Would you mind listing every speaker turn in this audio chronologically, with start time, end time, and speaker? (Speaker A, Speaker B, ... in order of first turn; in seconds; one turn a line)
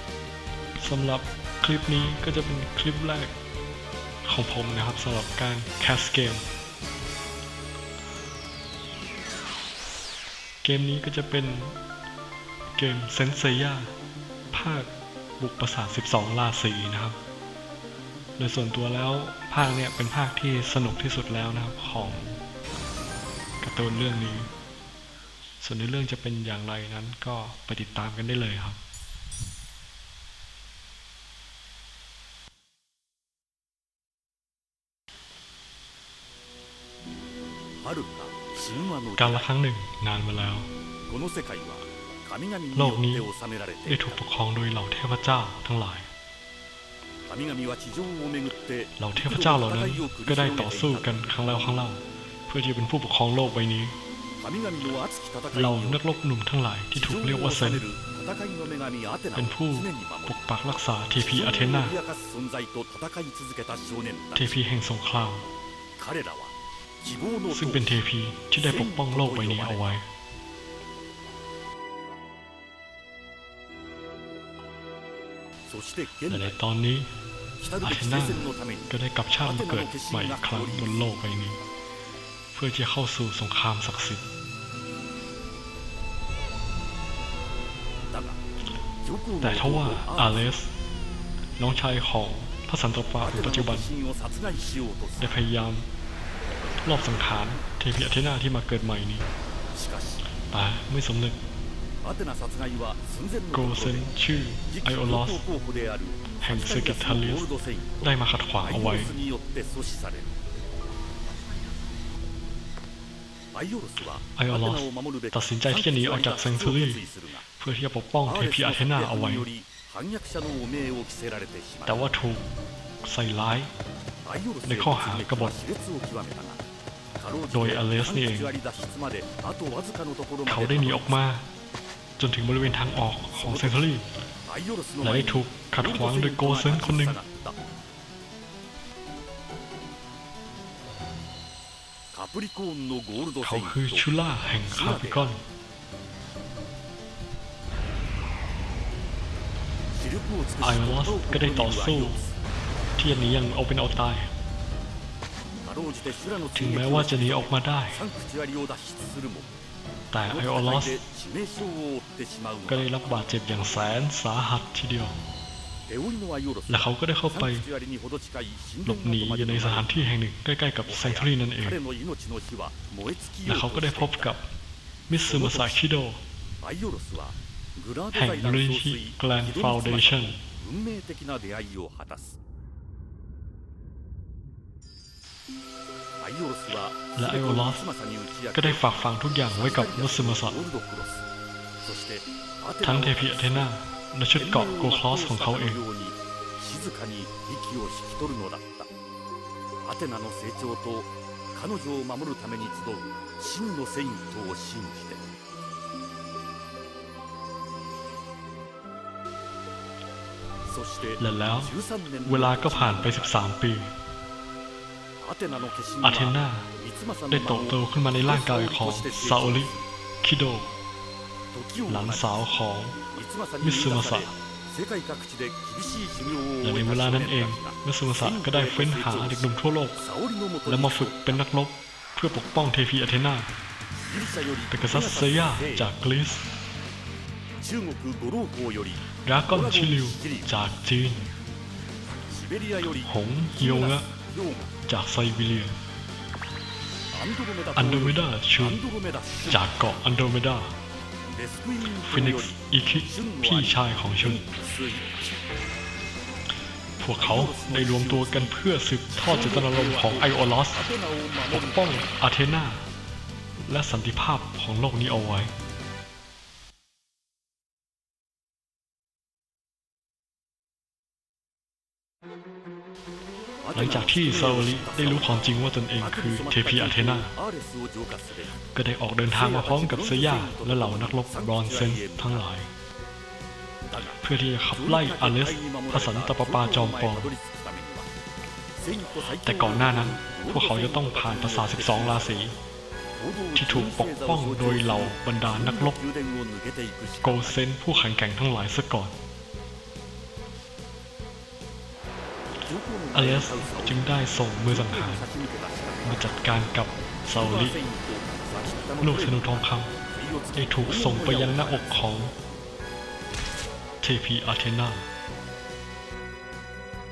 Speaker A: 0.8-3.3
Speaker A: 4.2-6.4
Speaker A: 10.6-11.8
Speaker A: 12.7-13.9
Speaker A: 14.5-17.2
Speaker A: 18.4-22.4
Speaker A: 23.6-24.5
Speaker A: 25.6-28.8
Speaker B: 37.8-39.5
Speaker A: 39.2-40.7
Speaker B: 41.1-44.2
Speaker A: 42.7-43.3
Speaker A: 43.9-46.1
Speaker B: 47.3-51.4
Speaker A: 49.0-54.0
Speaker B: 54.4-56.0
Speaker A: 55.5-57.9
Speaker B: 56.9-60.5
Speaker A: 59.3-62.0
Speaker B: 61.1-64.6
Speaker A: 64.3-65.5
Speaker B: 66.0-68.0
Speaker A: 67.5-70.1
Speaker B: 68.5-70.0
Speaker B: 75.7-76.6
Speaker A: 76.3-77.1
Speaker B: 77.6-78.9
Speaker A: 77.8-81.6
Speaker B: 79.4-81.1
Speaker A: 82.5-84.2
Speaker B: 88.1-88.4
Speaker B: 89.0-90.5
Speaker A: 89.4-90.7
Speaker A: 91.6-93.9
Speaker B: 93.2-95.5
Speaker A: 95.2-95.9
Speaker A: 96.8-99.3
Speaker B: 99.7-100.2
Speaker A: 100.5-101.4
Speaker B: 102.0-104.1
Speaker A: 103.5-105.4
Speaker B: 104.7-108.1
Speaker A: 106.4-109.1
Speaker B: 108.6-110.3
Speaker B: 113.5-117.4
Speaker A: 114.3-117.0
Speaker A: 117.5-119.5
Speaker B: 118.2-122.1
Speaker A: 121.8-122.5
Speaker A: 123.0-123.7
Speaker B: 124.2-126.6
Speaker A: 124.6-125.5
Speaker B: 127.2-131.3
Speaker A: 127.5-128.5
Speaker A: 130.4-131.5
Speaker A: 132.2-134.1
Speaker B: 133.4-133.9
Speaker B: 134.4-137.6
Speaker A: 135.0-137.2
Speaker B: 142.1-145.3
Speaker A: 143.4-145.4
Speaker B: 149.9-152.3
Speaker A: 150.6-152.2
Speaker A: 152.9-154.3
Speaker B: 155.6-159.5
Speaker A: 156.5-158.0
Speaker A: 160.1-161.0
Speaker B: 160.2-163.0
Speaker A: 162.7-165.2
Speaker B: 165.9-170.1
Speaker A: 166.7-167.7
Speaker A: 168.8-171.8
Speaker B: 170.8-174.3
Speaker A: 173.4-174.5
Speaker A: 175.1-176.2
Speaker B: 175.2-175.8
Speaker B: 176.6-182.4
Speaker A: 178.1-180.4
Speaker B: 186.2-188.9
Speaker A: 187.2-187.8
Speaker A: 188.5-190.6
Speaker B: 189.5-191.2
Speaker B: 191.8-193.7
Speaker A: 192.8-195.8
Speaker B: 194.3-198.9
Speaker B: 199.8-205.2
Speaker B: 210.7-213.5
Speaker A: 211.2-211.7
Speaker A: 212.2-213.9
Speaker B: 215.2-219.8
Speaker A: 216.0-216.7
Speaker A: 217.3-220.7
Speaker B: 221.5-222.4
Speaker A: 221.9-223.0
Speaker B: 223.1-231.4
Speaker A: 223.6-224.3
Speaker A: 226.6-230.0
Speaker A: 230.7-233.5
Speaker B: 234.0-235.9
Speaker A: 234.7-236.5
Speaker B: 237.6-240.5
Speaker A: 239.2-241.3
Speaker B: 242.3-244.7
Speaker A: 243.0-244.1
Speaker A: 244.9-245.7
Speaker B: 247.1-249.8
Speaker A: 247.7-248.8
Speaker A: 249.5-250.8
Speaker B: 251.3-255.3
Speaker A: 252.0-254.4
Speaker A: 257.0-260.9
Speaker B: 257.2-258.6
Speaker B: 259.1-262.0
Speaker A: 261.5-262.9
Speaker A: 263.6-265.5
Speaker B: 273.6-278.6
Speaker A: 273.7-277.3
Speaker A: 278.7-282.7
Speaker B: 279.2-282.5
Speaker B: 283.9-284.2
Speaker A: 284.2-287.3
Speaker B: 284.7-288.1
Speaker B: 288.7-292.4
Speaker A: 289.4-292.6
Speaker B: 293.1-297.6
Speaker A: 293.5-296.0
Speaker A: 297.2-299.1
Speaker B: 302.6-306.3
Speaker A: 303.1-305.3
Speaker A: 306.0-307.8
Speaker B: 307.3-312.1
Speaker A: 309.0-309.9
Speaker A: 310.6-312.3
Speaker A: 314.0-315.1